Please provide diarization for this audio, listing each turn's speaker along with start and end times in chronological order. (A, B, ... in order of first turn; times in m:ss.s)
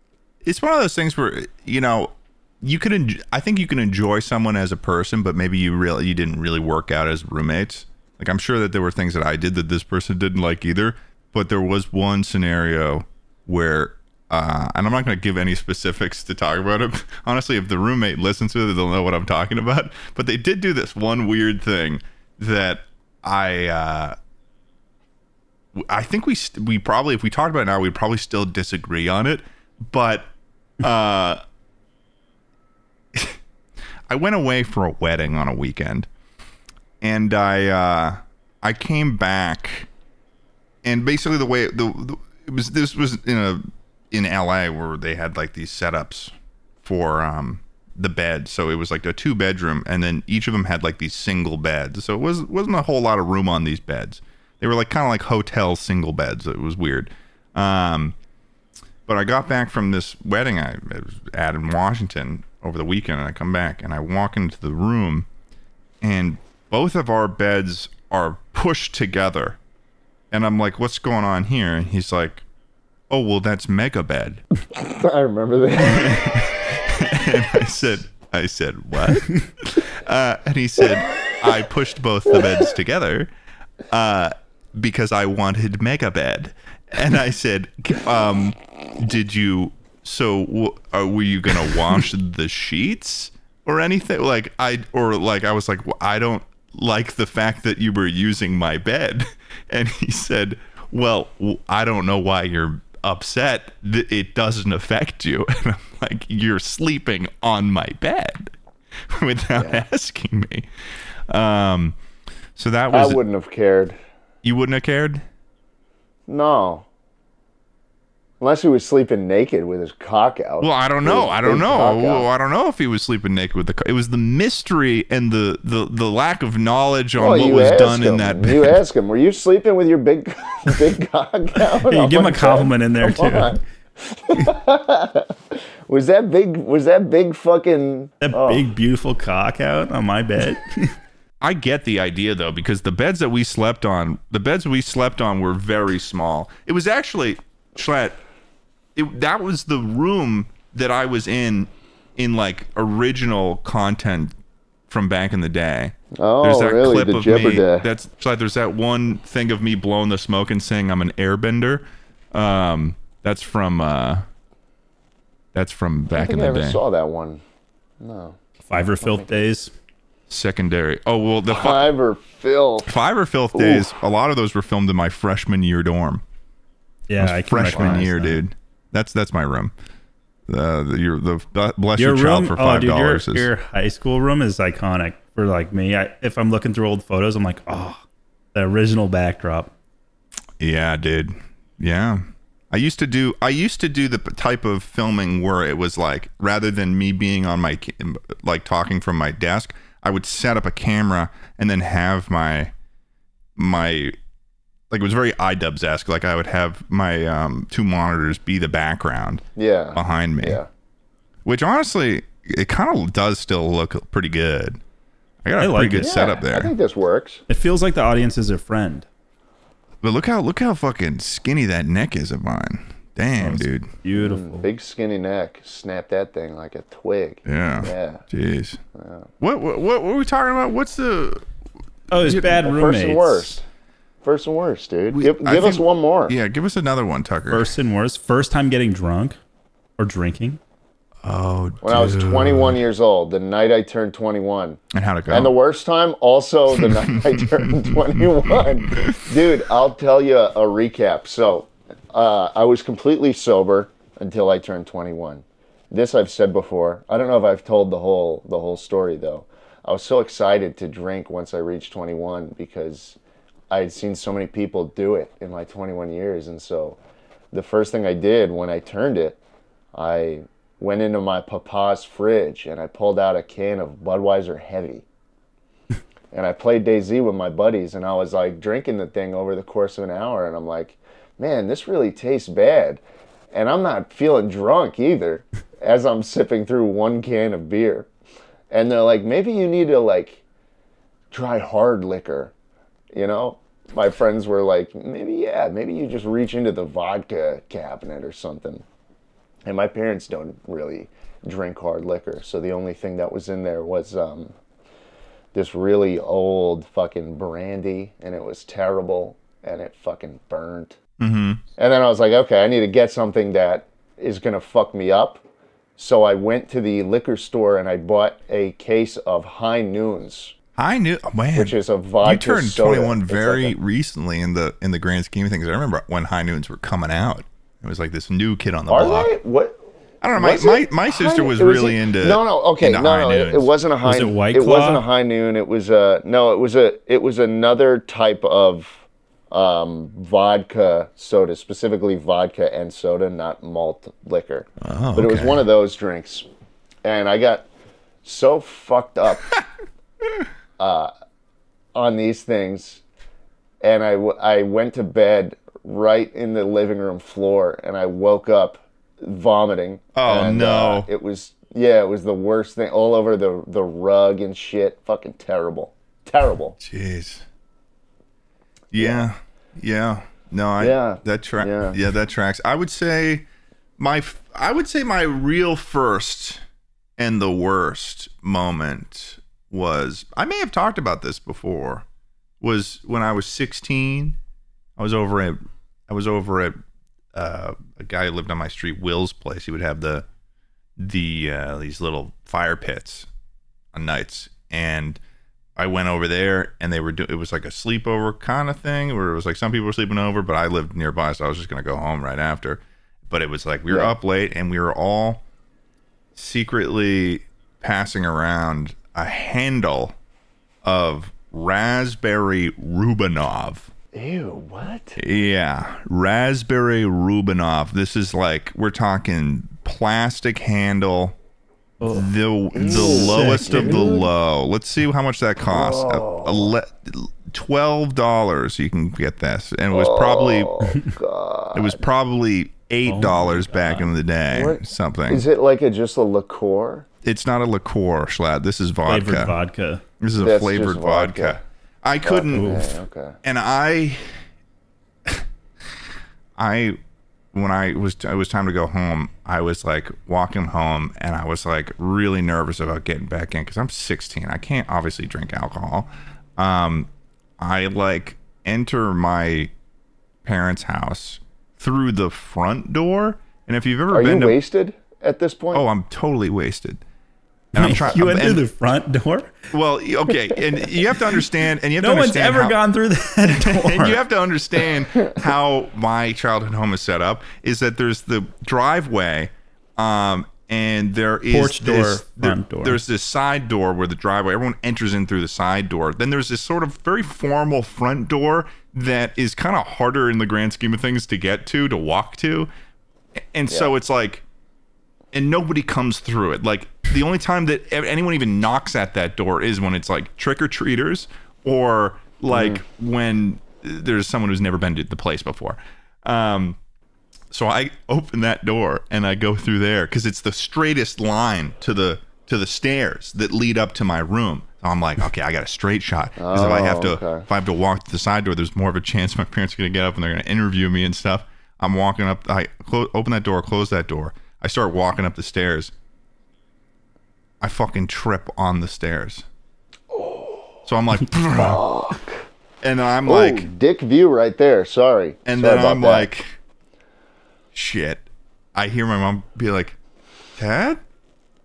0:00.4-0:24.2 A
0:25.8-0:31.4 A
0:34.1-0:36.1 A
0:37.0-0:39.9 A
0:40.8-0:58.2 A
0:59.1-1:05.3 A
1:06.0-1:09.6 A
1:10.3-1:12.4 A
1:13.1-1:14.4 A
1:14.7-1:16.6 B
1:15.8-1:23.3 A
1:23.9-1:48.5 A
1:49.1-1:50.7 A
1:49.6-1:49.8 B
1:51.3-1:52.0 A
1:52.6-1:53.2 A
1:52.9-1:54.0 B
1:54.4-1:55.2 A
1:56.3-1:56.9 B
1:58.4-2:02.3 B
2:00.6-2:08.8 A
2:07.2-2:18.7 B
2:11.8-2:13.6 C
2:18.2-2:21.0 C
2:21.4-2:28.2 A
2:29.0-2:34.4 A
2:34.9-2:44.3 A
2:36.2-2:37.9 B
2:45.5-2:46.8 A
2:46.2-2:47.4 B
2:48.0-2:48.4 B
2:48.6-2:49.7 C
2:49.0-2:49.4 B
2:50.3-2:51.9 A
2:51.5-2:52.9 B
2:52.8-2:56.2 A
2:53.5-2:53.9 B
2:57.1-2:58.4 C
2:57.2-2:59.7 A
3:00.5-3:03.5 A
3:02.0-3:08.0 C
3:08.5-3:09.7 C
3:10.6-3:22.7 A
3:23.6-3:24.2 A
3:24.9-3:29.4 A
3:29.6-3:30.7 B
3:30.0-3:30.6 A
3:31.4-3:34.8 A
3:35.4-3:36.7 A
3:35.6-3:36.1 C
3:36.0-3:37.4 B
3:37.5-3:39.1 C
3:40.0-3:43.9 A
3:43.4-3:44.7 C
3:44.1-3:48.2 B
3:47.4-3:48.8 A
3:49.0-3:49.3 B
3:49.4-3:51.4 A
3:52.1-3:53.5 C
3:52.1-3:52.6 A
3:52.3-3:53.6 B
3:54.2-3:56.4 B
3:55.1-3:57.7 A
3:57.5-3:59.4 C
4:00.0-4:00.6 C
4:01.2-4:02.8 A
4:01.8-4:23.2 B
4:04.9-4:05.5 A
4:07.2-4:09.2 A
4:23.7-4:27.0 B
4:27.5-4:29.4 B
4:29.9-4:35.0 B
4:36.3-4:43.0 B
4:43.5-4:48.1 B
4:48.7-4:50.4 B
4:51.3-4:52.5 B
4:53.1-4:58.8 B
4:59.6-5:04.6 B
5:05.5-5:11.0 B
5:11.2-5:11.6 A
5:11.8-5:15.4 B
5:16.0-5:20.6 B
5:20.8-5:29.4 A
5:21.6-5:23.8 B
5:28.9-5:29.8 B
5:30.2-5:33.7 A
5:30.4-5:46.5 B
5:34.0-5:35.0 C
5:44.8-5:45.6 A
5:47.0-5:47.7 B
5:48.2-5:49.5 B
5:50.8-5:51.1 B
5:52.0-5:53.0 B
5:53.8-6:06.8 B
6:00.1-6:01.1 A
6:06.8-6:07.4 A
6:08.9-6:13.5 A
6:09.0-6:09.3 B
6:10.8-6:12.0 B
6:14.0-6:16.6 A
6:17.2-6:22.0 A
6:22.6-6:24.4 A
6:25.0-6:26.8 A
6:27.4-6:30.3 A
6:31.0-6:33.3 A
6:33.9-6:35.2 A
6:35.8-6:45.4 A
6:46.4-6:50.2 A
6:50.8-6:53.9 A
6:54.1-6:55.2 B
6:55.2-7:01.4 A
7:02.0-7:02.3 C
7:02.0-7:10.8 A
7:02.7-7:04.3 B
7:02.8-7:04.2 C
7:05.7-7:06.7 B
7:09.9-7:12.0 B
7:11.7-7:15.4 A
7:13.1-7:14.1 C
7:14.5-7:17.1 B
7:17.2-7:19.6 A
7:19.1-7:20.0 C
7:20.2-7:22.8 A
7:20.4-7:21.6 B
7:22.2-7:23.4 B
7:22.5-7:22.9 C
7:23.4-7:24.4 A
7:26.6-7:27.0 A
7:27.5-7:39.7 A
7:40.4-7:44.6 A
7:44.1-7:45.8 B
7:45.7-7:47.0 A
7:47.7-7:48.6 A
7:47.8-7:49.6 C
7:49.7-7:52.8 A
7:52.0-7:54.2 C
7:53.4-8:12.7 A
8:01.5-8:03.0 C
8:13.5-8:14.4 A
8:15.3-8:26.8 A
8:22.5-8:22.8 B
8:27.5-8:45.9 A
8:36.4-8:37.4 B
8:47.6-8:49.5 A
8:50.1-8:50.8 B
8:50.9-8:51.8 A
8:51.5-8:52.5 B
8:52.8-8:53.7 A
8:53.3-8:56.3 B
8:55.4-8:56.5 A
8:57.7-8:58.2 A
8:58.8-9:00.0 A
9:00.6-9:01.0 A